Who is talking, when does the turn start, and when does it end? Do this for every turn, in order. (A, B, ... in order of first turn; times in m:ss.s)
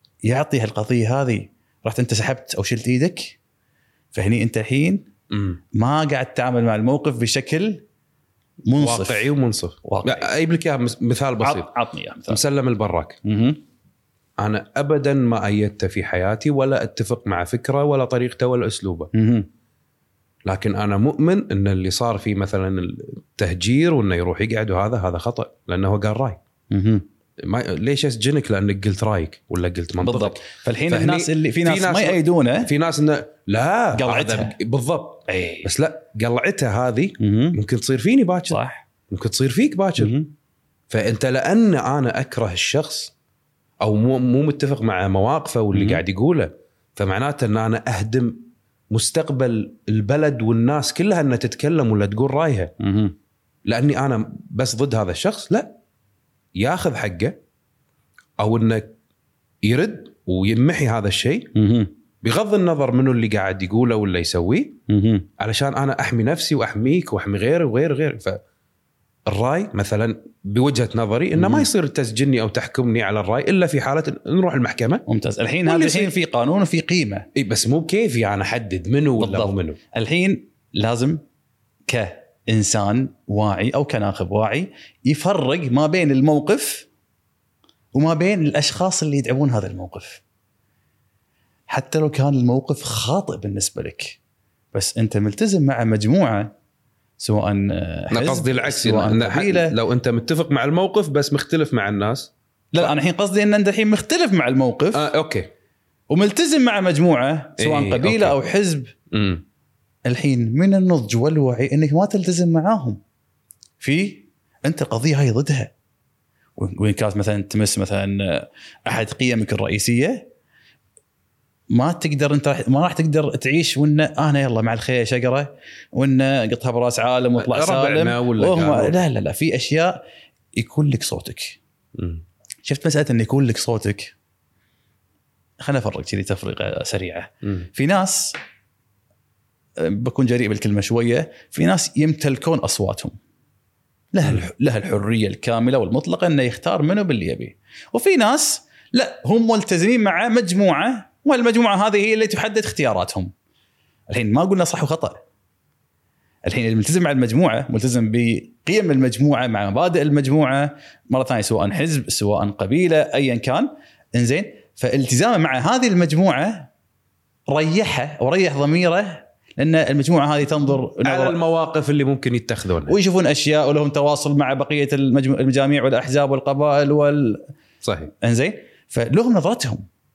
0:00.2-0:03.4 A
0:04.1-0:05.1 A
0:05.3-0:05.6 B
0:05.7-0:07.8 A
0:08.7-0:09.3 A
0:08.8-0:11.7 B
0:09.8-0:10.3 A
0:11.4-0:12.4 A
0:12.3-0:13.2 B
0:13.2-0:13.6 A
0:14.4-0:19.1 B
0:19.1-0:19.5 A
0:20.4-0:26.4 B
0:26.7-0:27.0 A
0:27.4-0:40.2 B
0:30.0-0:32.7 A
0:33.9-0:34.5 A
0:35.3-0:35.7 A
0:37.2-0:37.6 A
0:38.5-0:38.8 A
0:40.0-0:40.3 A
0:40.9-0:43.1 B
0:43.8-0:52.7 B
0:45.7-0:46.0 A
0:52.8-0:53.1 A
0:53.6-0:55.8 B
0:56.6-0:57.4 B
0:58.4-0:59.0 B
0:59.6-1:01.6 B
1:01.5-1:01.9 A
1:02.2-1:04.8 B
1:04.9-1:05.3 A
1:05.4-1:08.4 B
1:09.2-1:15.0 B
1:11.4-1:11.7 A
1:15.1-1:17.3 A
1:15.6-1:16.1 B
1:17.3-1:19.8 B
1:19.2-1:21.2 A
1:21.9-1:26.9 A
1:27.9-1:30.2 A
1:31.7-1:34.2 A
1:34.7-1:36.5 A
1:37.2-1:39.7 A
1:38.1-1:42.9 B
1:42.7-1:45.1 A
1:44.9-1:45.5 B
1:46.1-1:48.9 A
1:47.6-1:48.4 B
1:49.1-1:49.4 B
1:50.0-1:53.0 A
1:53.8-1:55.7 A
1:56.6-2:00.3 A
2:01.7-2:10.0 A
2:07.4-2:09.0 B
2:10.5-2:11.6 A
2:11.9-2:12.2 B
2:12.6-2:14.1 A
2:15.6-2:18.4 A
2:19.8-2:23.2 A
2:24.1-2:33.3 A
2:34.1-2:35.2 A
2:36.4-2:46.7 A
2:47.5-2:51.4 A
2:51.0-2:53.0 B
2:52.8-2:57.4 A
2:57.8-2:58.1 B
2:58.2-2:59.8 A